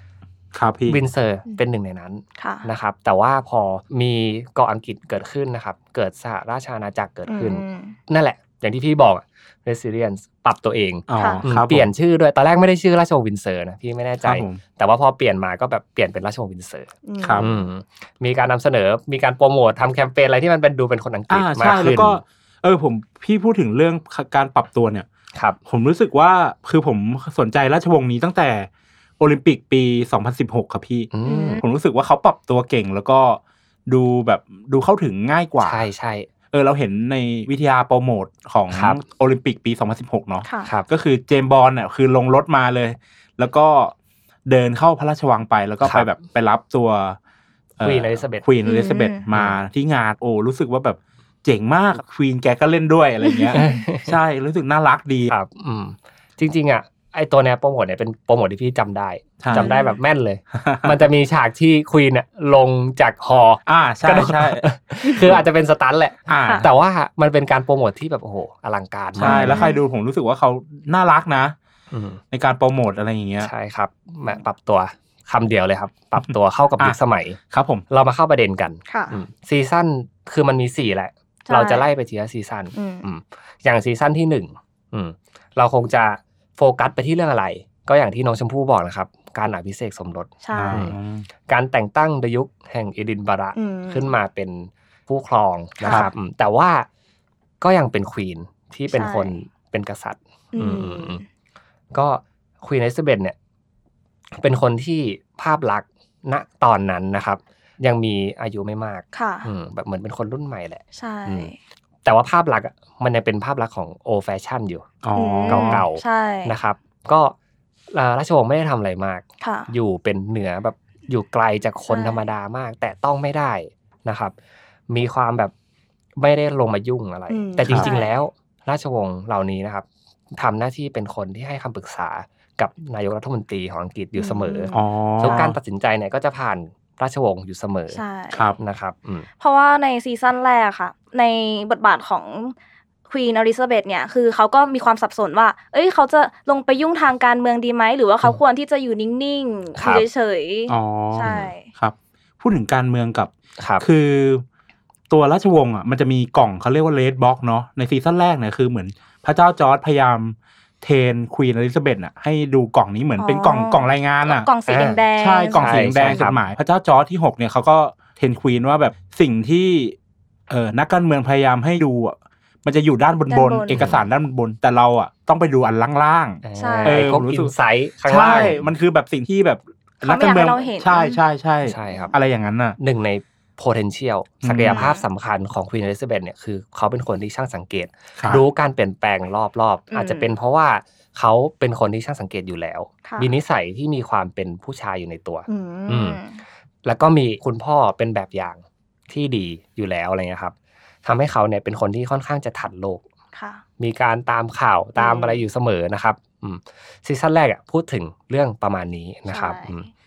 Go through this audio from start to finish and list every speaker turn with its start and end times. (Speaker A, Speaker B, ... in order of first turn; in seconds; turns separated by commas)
Speaker A: 0.5-1.0, Speaker B: 0.9-22.2, Speaker C: 2.4-2.7, Speaker C: 7.3-8.0, Speaker A: 11.1-11.9, Speaker C: 11.2-11.4, Speaker A: 14.2-14.6, Speaker C: 17.1-17.6, Speaker A: 17.2-17.5, Speaker A: 21.3-25.1, Speaker A: 25.7-35.8, Speaker B: 31.1-31.6, Speaker C: 31.2-31.6, Speaker B: 35.6-36.3, Speaker A: 36.5-43.9, Speaker B: 38.7-39.0, Speaker C: 40.4-40.7, Speaker A: 44.5-47.2, Speaker B: 45.8-46.1, Speaker A: 47.8-55.3, Speaker B: 47.8-48.5, Speaker C: 48.6-49.2, Speaker B: 49.3-49.6, Speaker C: 53.2-53.7, Speaker B: 53.5-54.1, Speaker B: 55.3-69.7, Speaker A: 59.4-59.7, Speaker C: 59.5-60.0, Speaker A: 60.5-61.0, Speaker A: 63.7-65.4, Speaker A: 66.3-66.7, Speaker A: 69.2-71.5, Speaker C: 69.2-69.8, Speaker B: 71.9-72.2, Speaker A: 72.3-73.5, Speaker B: 73.4-77.4, Speaker A: 77.5-77.8, Speaker B: 77.9-96.9, Speaker C: 78.9-79.2, Speaker C: 81.5-81.9, Speaker C: 82.7-83.0, Speaker C: 90.4-90.9, Speaker A: 90.5-91.3, Speaker C: 93.5-94.1, Speaker C: 95.8-96.1, Speaker B: 97.6-101.2, Speaker C: 98.9-99.3, Speaker C: 100.5-101.2, Speaker B: 101.9-103.4, Speaker B: 104.4-111.5, Speaker C: 109.1-109.5, Speaker C: 111.0-111.6, Speaker B: 112.0-114.9, Speaker A: 115.0-115.8, Speaker C: 115.2-116.6, Speaker B: 115.5-117.4, Speaker B: 117.9-124.3, Speaker C: 119.4-119.7, Speaker C: 121.9-122.2, Speaker B: 124.9-125.5, Speaker B: 126.2-138.0, Speaker C: 127.3-128.1, Speaker C: 134.2-135.5, Speaker A: 134.7-135.6, Speaker C: 137.9-138.5, Speaker A: 138.3-138.6, Speaker B: 138.6-139.3, Speaker C: 139.4-142.6, Speaker C: 143.1-151.7, Speaker B: 149.8-150.1, Speaker A: 150.7-154.4, Speaker B: 153.6-153.8, Speaker A: 155.1-164.5, Speaker C: 163.2-166.3, Speaker B: 164.7-165.0, Speaker A: 165.2-170.0, Speaker B: 165.5-166.4, Speaker A: 170.5-177.5, Speaker C: 173.3-174.0, Speaker B: 176.4-178.6, Speaker C: 176.6-177.1, Speaker A: 178.1-182.8, Speaker C: 180.0-181.2, Speaker B: 181.7-182.2, Speaker B: 182.8-196.2, Speaker A: 184.4-184.9, Speaker C: 184.7-185.0, Speaker A: 188.2-188.4, Speaker C: 189.9-190.3, Speaker C: 193.1-193.3, Speaker C: 195.5-196.4, Speaker B: 196.8-200.5, Speaker B: 201.1-203.0, Speaker C: 203.3-203.6, Speaker B: 203.8-209.9, Speaker C: 205.0-205.4, Speaker C: 209.3-209.8